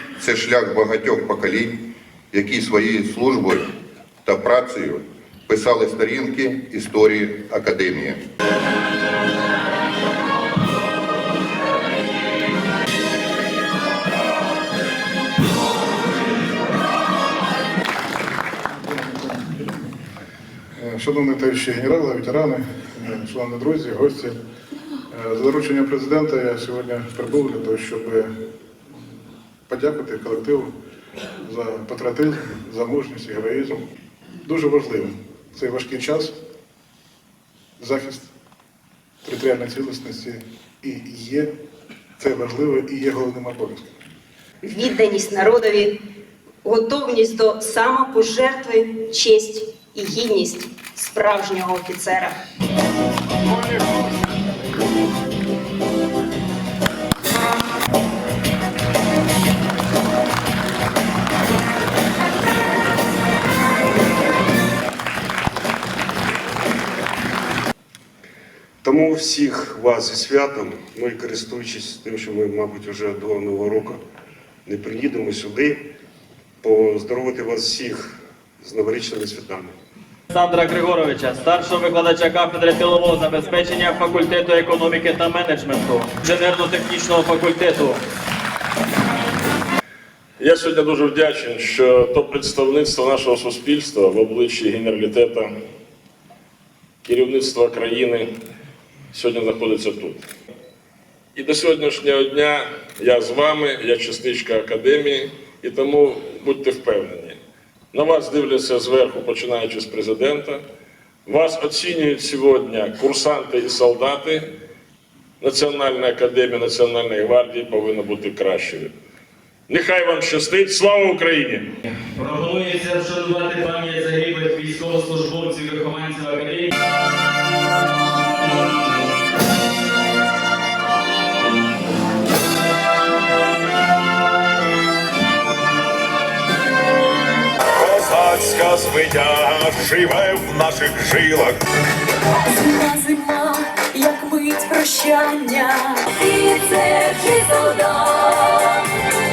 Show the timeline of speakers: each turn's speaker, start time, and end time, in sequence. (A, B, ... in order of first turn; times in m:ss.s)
0:00.2-0:01.8 A
0:02.3-0:03.7 A
0:04.2-0:08.2 A
0:20.8-0:24.3 B
0:25.1-0:28.3 B
0:29.7-0:30.7 B
0:31.5-0:33.7 B
0:34.4-0:36.3 B
0:37.8-0:38.2 B
0:39.2-0:41.5 B
0:42.2-0:43.8 B
0:44.6-0:46.0 C
0:46.6-0:52.3 C
1:08.8-1:14.0 D
1:14.6-1:15.8 D
1:16.6-1:19.7 D
1:20.3-1:28.0 E
1:30.4-1:35.5 F
1:37.0-1:38.3 F
1:39.1-1:40.2 F
1:41.3-1:47.4 F
1:47.9-1:50.6 F
1:51.2-1:54.5 F
1:55.4-1:58.9 F
1:59.7-2:01.7 F
2:01.9-2:06.7 E
2:17.7-2:21.6 G
2:22.3-2:28.8 H